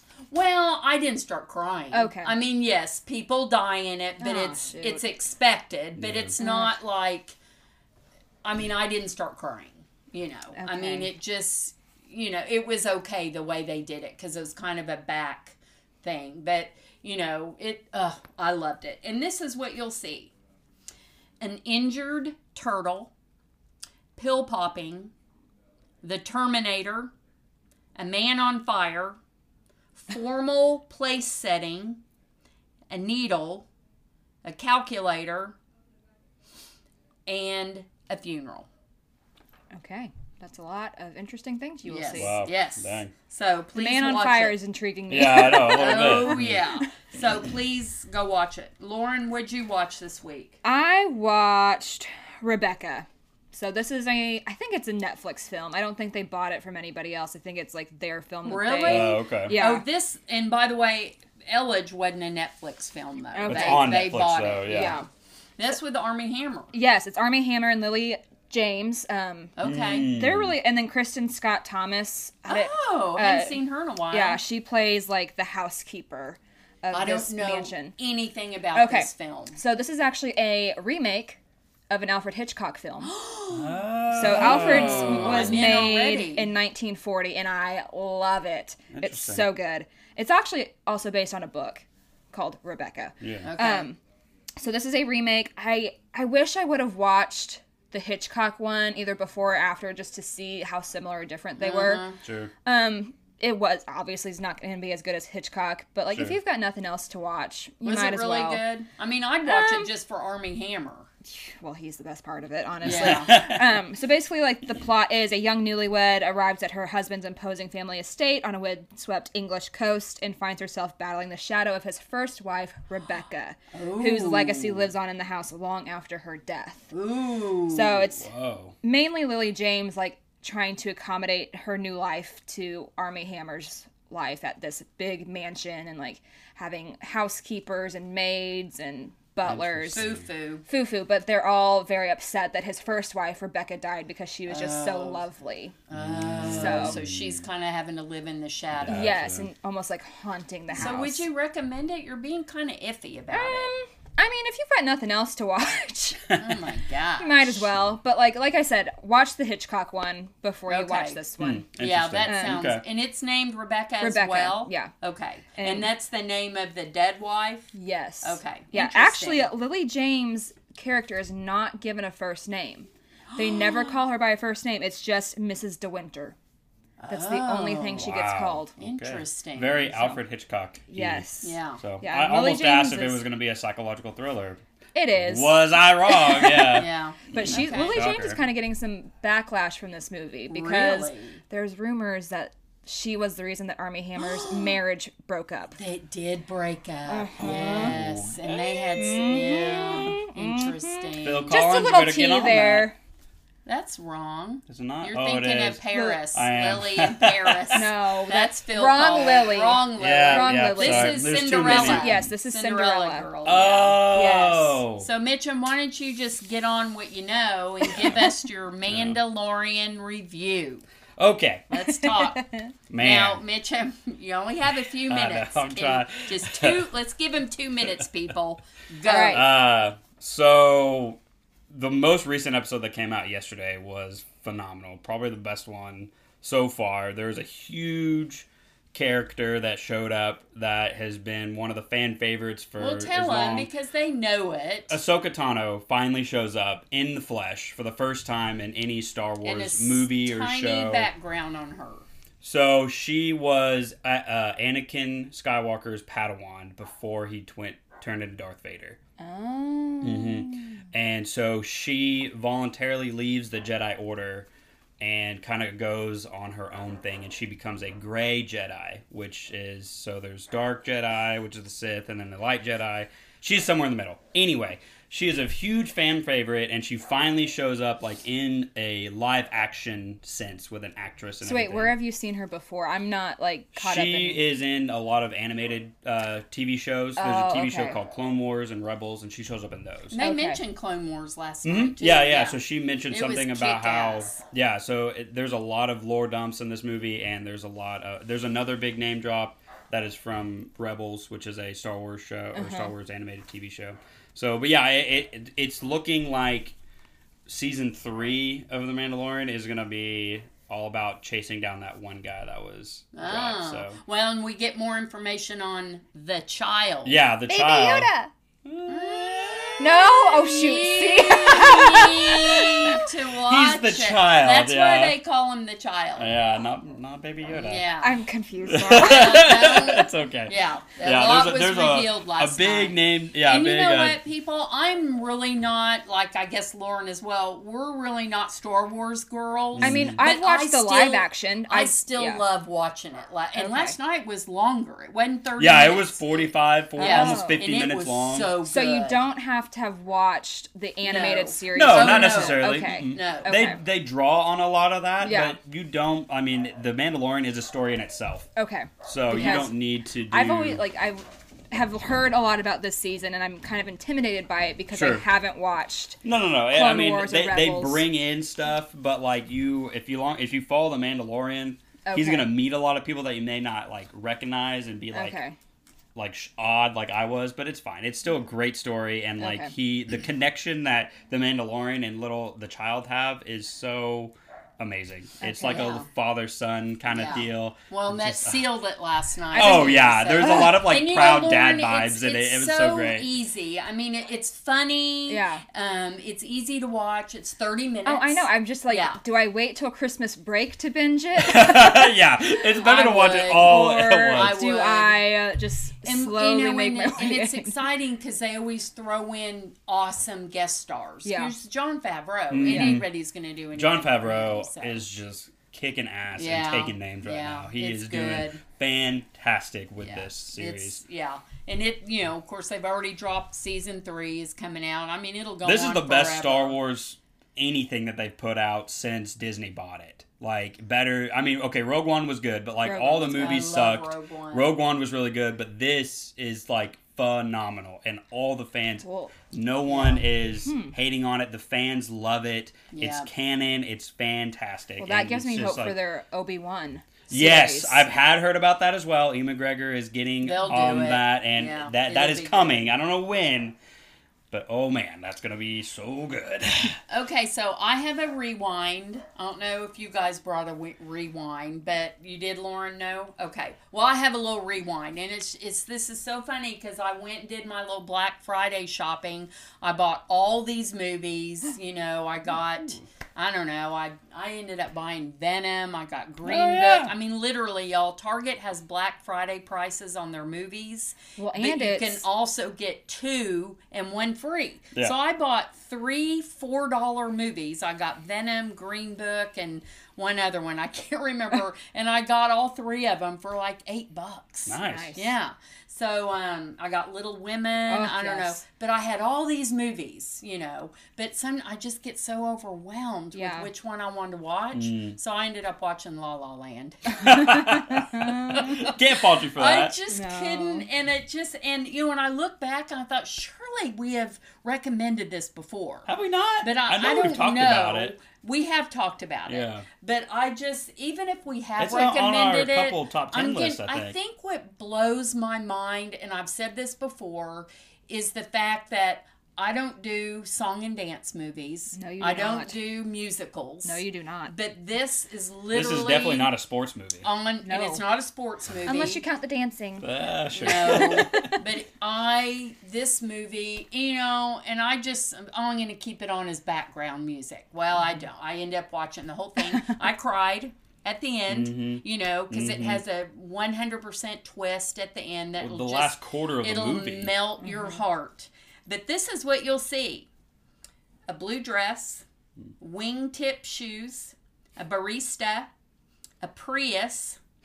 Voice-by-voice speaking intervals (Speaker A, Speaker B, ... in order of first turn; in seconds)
Speaker A: 0.3-7.4, 8.4-20.3, 21.4-23.1, 24.1-25.1, 26.0-27.1, 28.0-29.2, 29.9-32.0, 32.9-33.7, 34.4-35.6, 37.2-38.7, 41.9-44.6, 45.7-50.6, 58.5-65.0, 65.6-66.7, 69.6-70.1, 72.5-74.4, 76.9-79.6, 83.0-86.5, 93.4-93.9, 101.6-102.2, 107.8-111.1, 112.8-113.3, 123.7-124.9, 126.9-128.0, 139.9-140.6, 144.5-145.2, 145.9-149.1, 150.7-153.7, 156.3-157.6, 160.7-161.2, 161.8-169.5, 173.3-173.9, 177.0-178.1, 178.8-180.2, 181.4-181.8, 186.7-188.0, 190.5-191.4, 194.2-194.8, 195.8-201.6, 203.7-220.8, 221.7-222.4, 223.0-229.5, 242.8-244.9, 249.4-252.1, 290.1-294.4, 313.1-317.2, 318.9-326.3, 327.5-328.1, 328.9-349.2, 351.0-353.6, 385.6-386.1, 387.1-399.2, 402.8-405.2, 406.0-415.0, 416.4-418.6, 420.0-426.8, 433.3-434.7, 439.9-440.3, 442.9-443.3, 450.4-452.9, 457.1-507.6, 508.5-509.0, 509.5-516.1, 516.6-536.5, 537.2-539.2, 540.5-560.3, 561.3-562.2, 562.8-565.7, 566.4-567.4
Speaker B: 1.9-2.3, 4.2-5.0, 6.4-6.8, 10.6-11.1, 39.7-42.4, 43.8-46.8, 50.6-59.8, 63.3-64.1, 64.7-65.1, 66.7-78.0, 78.8-81.4, 81.9-83.2, 84.1-94.0, 94.6-102.1, 102.6-108.6, 109.5-109.9, 111.3-126.9, 127.7-128.3, 128.8-140.1, 140.7-145.8, 146.4-147.0, 148.9-151.2, 153.3-156.4, 157.2-161.7, 162.2-162.6, 164.0-164.9, 165.6-165.9, 167.7-176.4, 177.1-178.7, 180.9-183.2, 184.9-195.8, 197.1-198.0, 199.0-203.0, 205.9-206.2, 207.7-213.3, 214.1-214.7, 221.9-222.7, 229.0-229.4, 259.2-260.8, 281.4-284.4, 287.2-288.0, 290.2-290.6, 302.5-302.9, 317.5-318.3, 319.8-322.8, 328.0-329.5, 339.8-342.4, 343.5-344.0, 347.0-347.6, 348.6-353.8, 355.2-355.6, 358.6-359.8, 360.2-368.0, 372.1-372.5, 375.1-375.5, 379.4-379.7, 385.4-385.9, 389.5-390.8, 395.3-395.6, 398.1-402.1, 403.6-407.8, 411.2-411.6, 412.7-413.0, 432.8-433.6, 439.0-439.3, 440.6-440.9, 445.0-448.1, 481.4-482.2, 494.9-495.3, 497.9-498.6, 503.3-503.7, 507.9-508.7, 510.1-510.9, 531.9-532.8, 533.9-534.5, 537.6-538.0, 538.9-540.1, 540.7-541.5
Speaker C: 6.0-6.3, 42.2-43.1, 45.1-46.6, 58.8-59.6, 63.5-65.0, 69.6-70.6, 83.5-85.8, 88.9-89.5, 93.2-93.5, 102.2-102.5, 106.1-106.4, 112.8-113.8, 128.1-128.7, 139.4-140.2, 145.9-147.4, 148.8-149.5, 161.4-162.8, 178.0-184.6, 185.1-188.4, 197.4-199.4, 201.2-202.9, 204.7-207.8, 210.0-212.3, 213.4-215.1, 218.9-219.2, 221.2-221.7, 222.9-223.4, 225.1-226.9, 229.3-231.2, 231.7-243.7, 244.9-251.1, 252.4-259.0, 260.0-264.5, 265.0-281.9, 283.7-290.2, 291.6-306.8, 307.5-314.0, 317.0-318.1, 318.6-319.9, 322.5-325.2, 326.2-327.9, 328.7-334.2, 339.8-340.2, 345.6-348.5, 351.7-358.5, 359.0-360.8, 364.9-365.2, 366.2-375.4, 376.1-388.7, 389.5-393.3, 401.4-404.6, 412.5-413.1, 413.7-421.0, 425.6-445.9, 447.3-453.8, 454.5-457.0, 476.4-477.1, 494.7-495.1, 504.7-505.2, 507.2-509.9, 516.1-518.1, 519.5-519.9, 521.8-524.1, 535.7-537.3, 540.0-541.5, 551.5-553.0, 555.6-557.4